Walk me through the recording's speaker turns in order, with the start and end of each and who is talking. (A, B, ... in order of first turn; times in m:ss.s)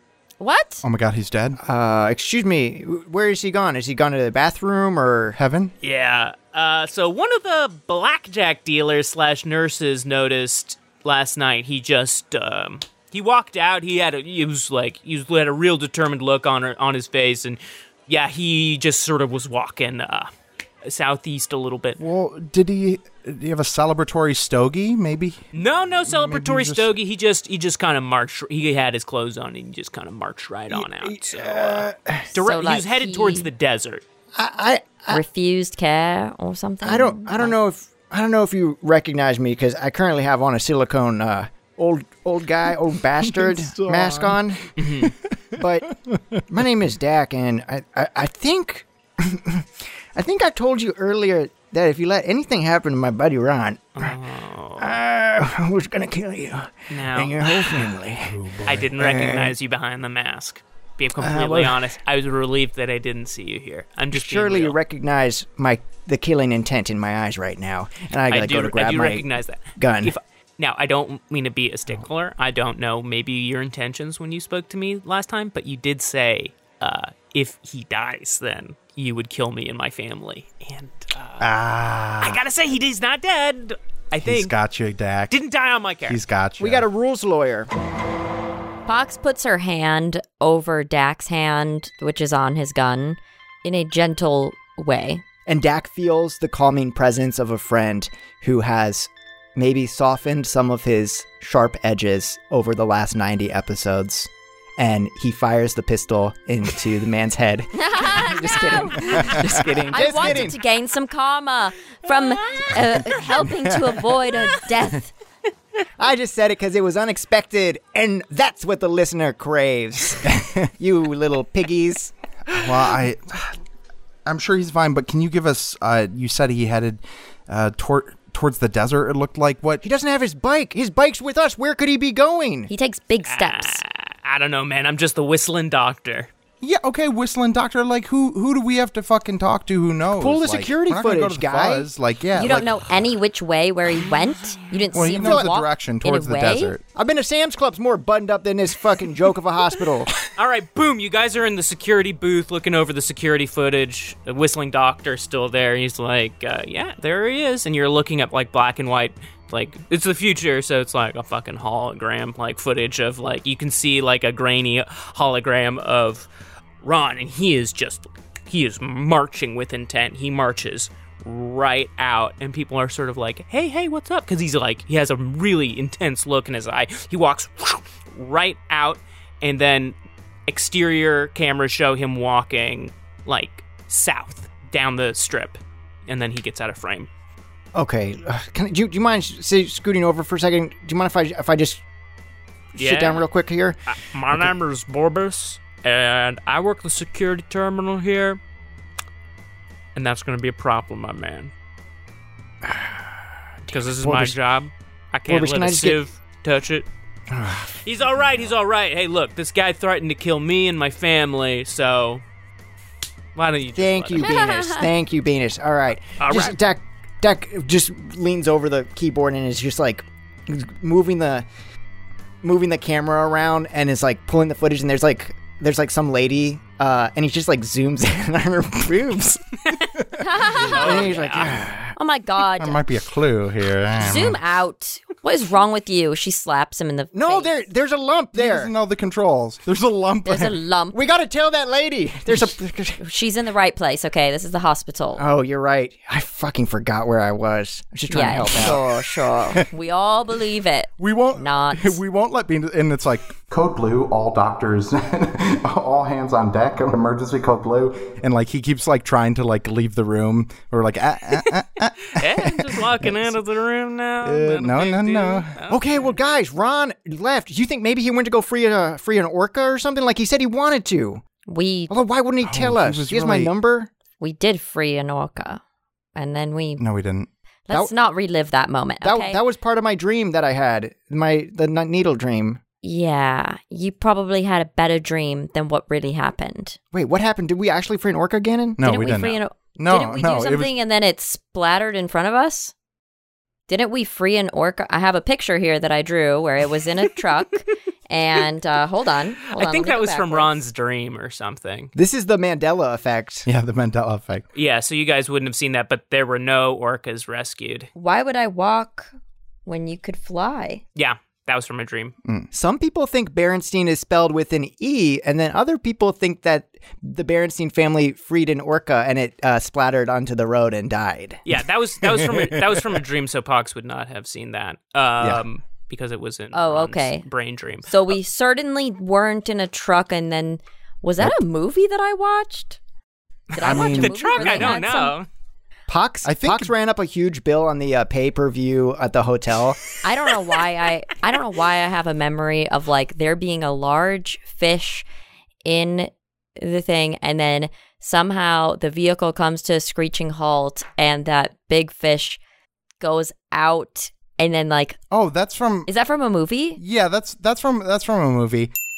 0:00.4-0:00.8 A
0:00.8-0:01.6 B
0:01.6-0:05.4 C
0:05.3-0:05.7 B
0:05.8-0:20.3 D
0:20.8-0:22.0 D
0:22.0-0:26.9 B
0:25.5-0:34.0 D
0:30.7-0:32.3 C
0:32.3-0:33.5 A
0:34.4-0:35.2 C
0:35.1-0:37.6 A
0:36.8-0:44.7 C
0:43.2-0:44.4 B
0:44.8-0:45.1 D
0:45.0-0:46.4 B
0:45.6-0:45.9 C
0:46.5-0:54.1 C
0:54.0-0:55.0 D
0:54.8-0:58.4 C
0:56.9-0:57.9 D
0:58.2-0:58.9 B
0:58.6-1:04.8 D
0:59.0-0:59.5 C
1:01.2-1:01.8 C
1:04.1-1:09.2 C
1:08.3-1:21.5 D
1:09.8-1:10.1 C
1:21.4-1:22.4 B
1:22.2-1:24.5 D
1:24.2-1:25.3 B
1:25.3-1:26.2 D
1:26.1-1:26.9 B
1:26.6-1:27.7 C
1:28.9-1:35.2 A
1:35.5-1:50.6 C
1:47.8-1:49.3 A
1:49.9-1:55.1 A
1:53.6-1:53.9 B
1:56.0-2:02.1 C
2:00.2-2:00.7 B
2:02.5-2:03.6 B
2:04.2-2:09.8 B
2:09.8-2:12.7 C
2:12.7-2:13.8 A
2:13.2-2:16.3 D
2:16.6-2:22.9 B
2:20.2-2:21.9 C
2:22.3-2:26.7 A
2:24.9-2:26.8 B
2:25.0-2:25.5 C
2:26.9-2:30.2 C
2:30.3-2:46.3 D
2:46.8-2:59.9 D
3:00.5-3:07.1 D
3:07.7-3:11.8 C
3:12.7-3:13.8 C
3:12.8-3:13.2 D
3:13.9-3:18.4 D
3:19.9-3:21.5 D
3:22.6-3:23.1 C
3:23.7-3:26.9 D
3:24.0-3:24.4 C
3:25.3-3:26.0 C
3:27.3-3:27.7 C
3:27.8-3:32.2 D
3:33.4-3:34.4 D
3:33.7-3:41.4 C
3:34.2-3:34.9 A
3:36.2-3:36.6 D
3:42.4-3:49.8 C
3:50.2-3:50.9 A
3:50.6-3:51.7 D
3:50.6-3:51.9 C
3:51.9-3:52.8 A
3:52.6-3:54.4 B
3:54.0-3:57.5 A
3:57.1-3:58.7 C
3:58.3-4:00.6 B
4:00.2-4:01.0 A
4:00.9-4:03.0 C
4:03.0-4:05.2 A
4:05.2-4:08.8 C
4:08.1-4:12.0 A
4:11.0-4:23.4 B
4:22.1-4:26.2 D
4:24.2-4:25.5 B
4:25.7-4:31.2 C
4:31.5-4:31.9 A
4:31.9-4:33.9 C
4:32.4-4:33.5 B
4:34.2-4:35.6 A
4:36.2-4:36.8 A
4:36.8-4:37.3 B
4:37.7-4:39.4 A
4:39.0-4:42.6 C
4:42.8-4:46.8 A
4:46.9-4:48.8 C
4:48.8-4:50.7 B
4:48.8-4:52.7 A
4:53.7-5:00.6 A
4:59.5-5:01.9 D
5:01.9-5:03.5 C
5:03.4-5:04.4 B
5:04.5-5:07.9 D
5:07.9-5:09.1 A
5:09.6-5:10.8 A
5:10.9-5:12.1 D
5:12.5-5:21.4 C
5:21.4-5:27.9 D
5:22.0-5:23.0 B
5:26.5-5:27.2 A
5:27.9-5:32.8 A
5:33.5-5:35.2 A
5:33.5-5:35.3 D
5:33.6-5:34.8 B
5:35.9-5:39.8 C
5:36.2-5:36.7 B
5:40.0-5:45.0 A
5:45.6-5:52.4 A
5:53.0-5:55.0 A
5:55.1-5:55.9 B
5:55.9-5:56.8 A
5:56.8-5:58.7 B